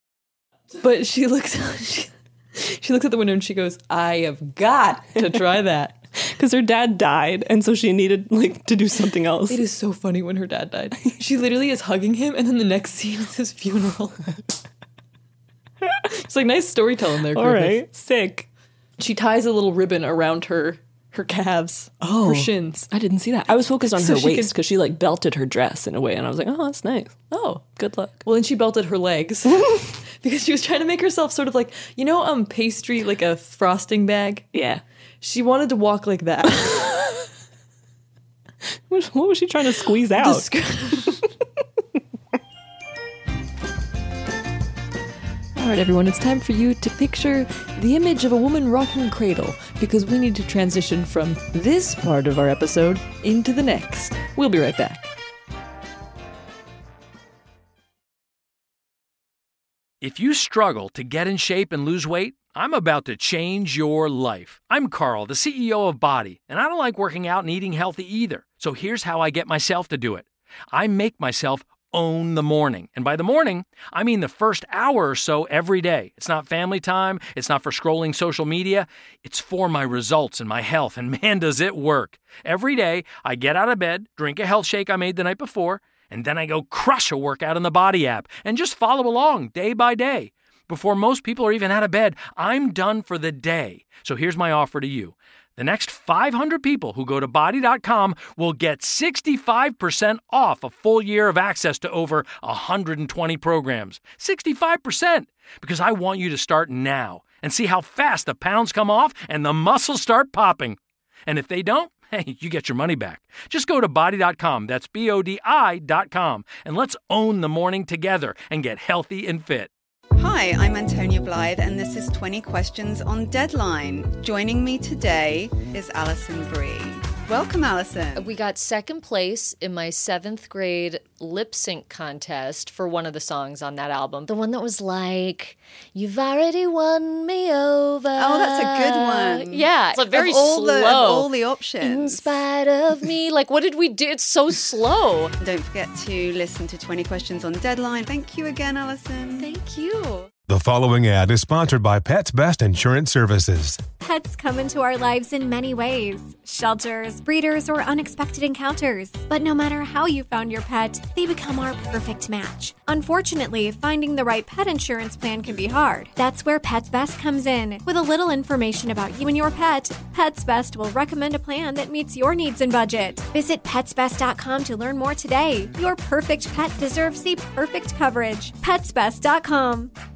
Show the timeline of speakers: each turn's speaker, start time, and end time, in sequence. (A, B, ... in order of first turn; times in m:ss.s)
0:00.8-0:06.0 A
0:06.3-0:09.6 B
0:09.5-0:14.2 A
0:16.2-0:17.8 A
0:17.3-0:18.4 B
0:19.0-0:22.9 A
0:22.0-0:27.2 B
0:23.9-0:24.5 A
0:27.3-0:34.5 A
0:27.8-0:28.2 B
0:34.5-0:34.8 B
0:35.2-0:37.0 A
0:38.9-0:40.5 B
0:40.2-0:41.2 A
0:45.5-0:55.0 A
1:00.0-1:59.7 C
2:00.2-2:08.3 D
2:08.2-2:25.3 E
2:18.2-2:22.3 D
2:25.4-2:30.2 D
2:30.5-2:33.8 F
2:34.0-2:59.9 G